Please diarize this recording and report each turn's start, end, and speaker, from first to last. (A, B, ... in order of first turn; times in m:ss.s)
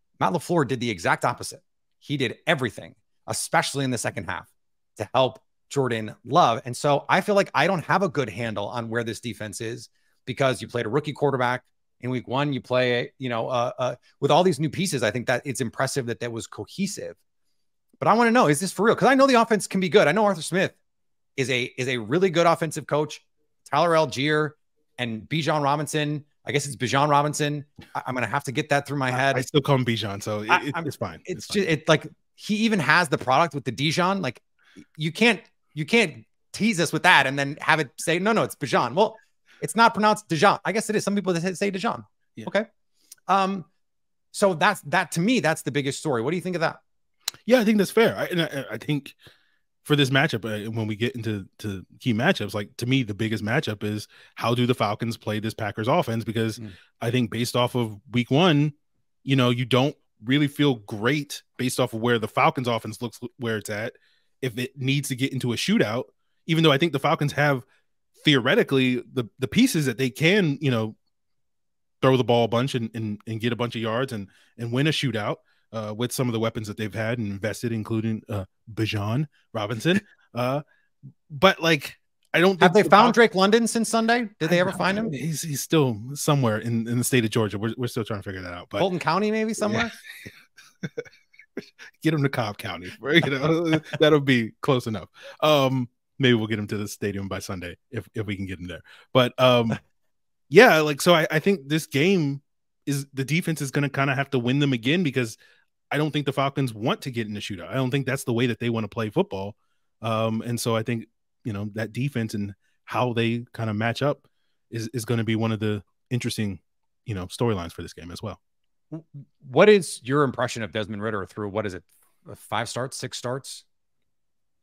0:00.2-0:17.2 A
0:18.0-0:20.8 A
0:21.4-0:29.4 A
0:29.1-0:31.6 B
0:30.5-0:34.4 A
0:35.0-0:42.7 A
0:43.3-0:43.7 A
0:44.3-0:46.8 A
0:47.4-0:49.2 B
0:49.8-0:58.7 B
0:59.2-1:07.6 B
1:08.2-1:11.0 B
1:12.0-1:20.6 B
1:21.3-1:23.2 B
1:22.6-1:25.2 A
1:24.4-1:28.9 B
1:28.8-1:29.9 A
1:29.6-1:29.9 B
1:32.0-1:39.8 B
1:40.5-1:45.4 B
1:45.9-1:58.4 B
1:58.9-2:03.6 A